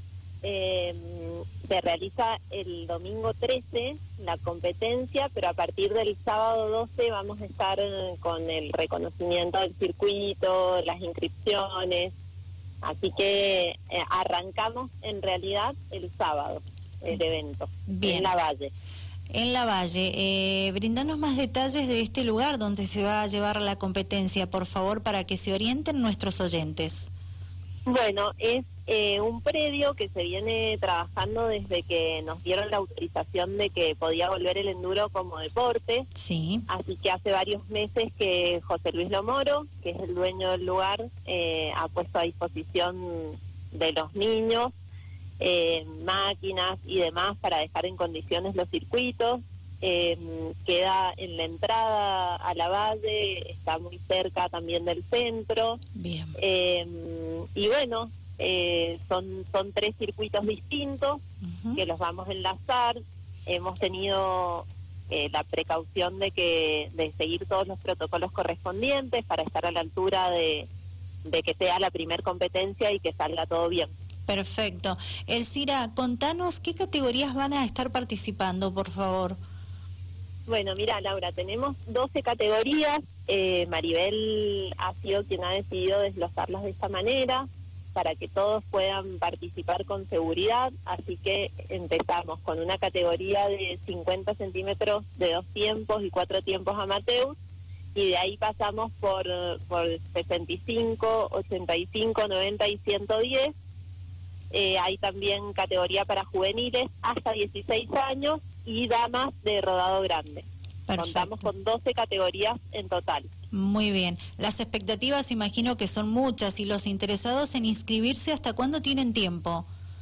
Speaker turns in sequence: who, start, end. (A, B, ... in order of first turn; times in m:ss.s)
0:00.4-0:12.1 A
0:12.8-0:18.7 A
0:17.9-0:18.3 B
0:19.3-0:27.1 B
0:27.8-0:36.1 A
0:36.2-0:36.6 B
0:36.7-0:44.7 A
0:45.4-0:55.8 A
0:55.9-0:56.4 B
0:56.4-1:01.2 A
1:01.4-1:01.8 B
1:01.8-1:10.7 A
1:11.2-1:13.9 A
1:14.3-1:19.4 B
1:20.5-1:37.4 A
1:37.9-1:43.5 A
1:44.5-1:53.3 A
1:50.9-1:51.4 B
1:53.5-1:59.6 B